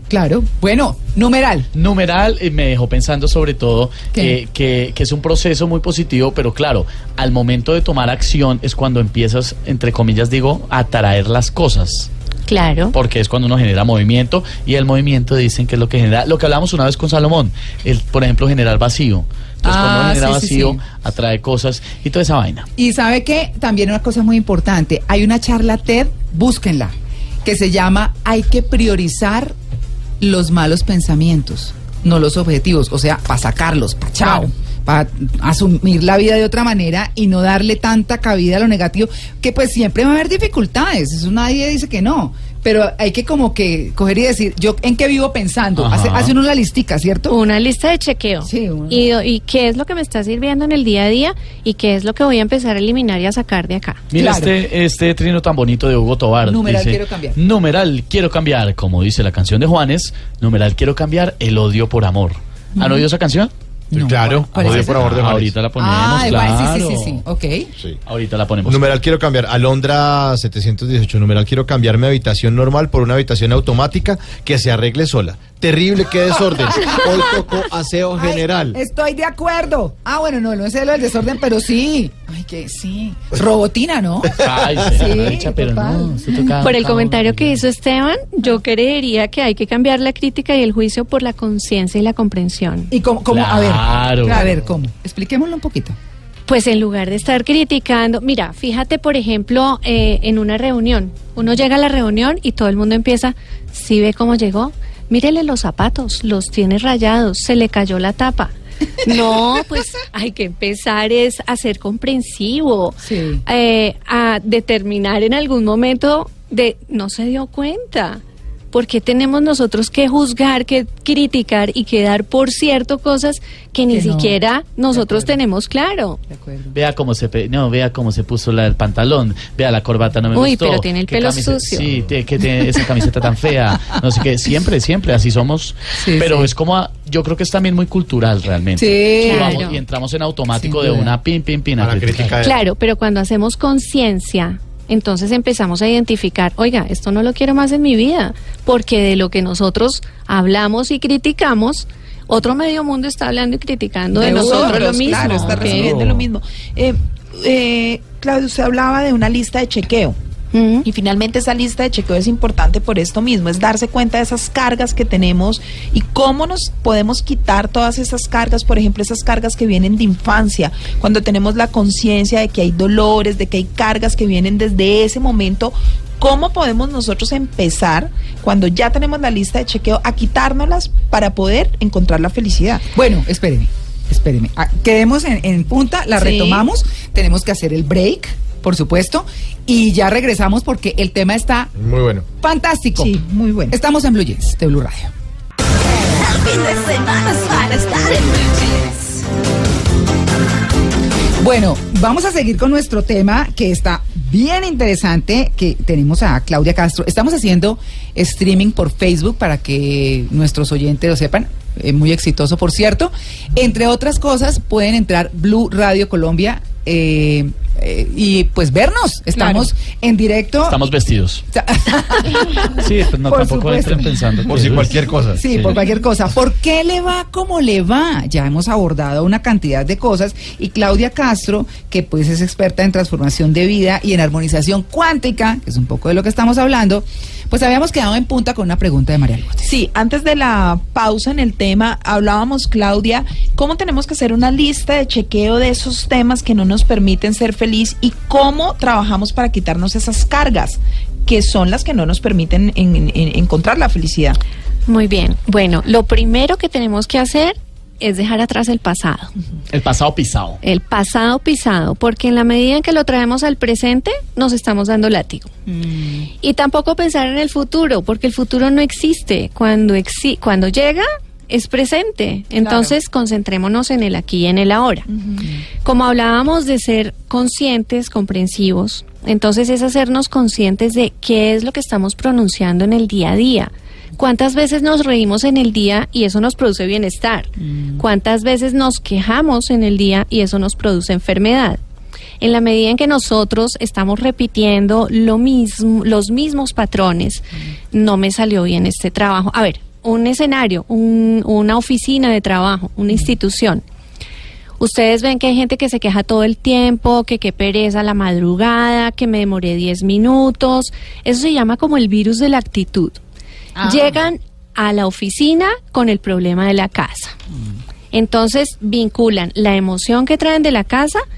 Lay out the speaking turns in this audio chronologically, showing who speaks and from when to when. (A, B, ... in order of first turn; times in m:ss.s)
0:00.1-0:01.7 A
0:01.7-0:12.1 B
0:12.5-0:13.0 C
0:12.9-0:22.7 B
0:19.6-0:20.8 A
0:22.8-0:29.6 A
0:30.2-0:47.4 A
0:45.8-0:46.3 B
0:47.3-0:54.0 C
0:48.4-0:49.1 A
0:54.1-1:07.2 B
0:54.1-0:54.6 A
0:56.4-0:57.4 A
1:02.8-1:03.1 A
1:03.9-1:05.2 A
1:04.0-1:05.6 D
1:05.8-1:07.7 A
1:08.1-1:09.0 B
1:08.6-1:18.8 D
1:16.6-1:17.5 A
1:18.2-1:26.7 A
1:24.4-1:27.6 B
1:24.4-1:24.9 D
1:26.6-1:32.9 C
1:32.9-1:36.0 A
1:33.3-1:34.6 B
1:36.5-2:06.2 C
1:49.1-1:49.7 A
1:53.0-1:53.4 A
2:03.9-2:04.4 A
2:04.9-2:05.4 A
2:06.3-2:06.8 A
2:06.7-2:22.4 B
2:10.3-2:11.9 C
2:16.0-2:16.5 A
2:18.8-2:19.7 A
2:19.2-2:19.8 C
2:20.5-2:21.2 A
2:21.8-2:22.6 D
2:22.4-2:35.9 C
2:34.1-2:40.2 E
2:34.2-2:35.0 A
2:35.1-2:36.3 B
2:40.5-2:40.9 C
2:40.8-3:02.8 E
3:03.0-3:11.7 A
3:06.2-3:06.6 E
3:11.8-3:12.3 D
3:12.4-3:13.2 A
3:13.0-3:13.8 E
3:13.7-3:15.1 A
3:16.1-3:19.2 E
3:21.4-3:40.8 A
3:39.4-3:39.7 E
3:40.7-3:41.4 B
3:41.5-3:59.7 A
3:42.6-3:45.8 B
3:44.5-3:45.7 D
3:59.6-4:14.4 E
4:14.9-4:19.3 C
4:19.7-4:20.6 B
4:20.6-4:25.5 C
4:25.7-4:26.3 A
4:26.4-4:35.1 C
4:35.1-4:35.5 E
4:35.8-4:51.8 C
4:47.6-4:48.0 A
4:52.4-5:03.8 C
5:04.8-5:13.2 C
5:13.8-5:14.2 A
5:13.8-5:17.4 C
5:18.1-5:21.2 C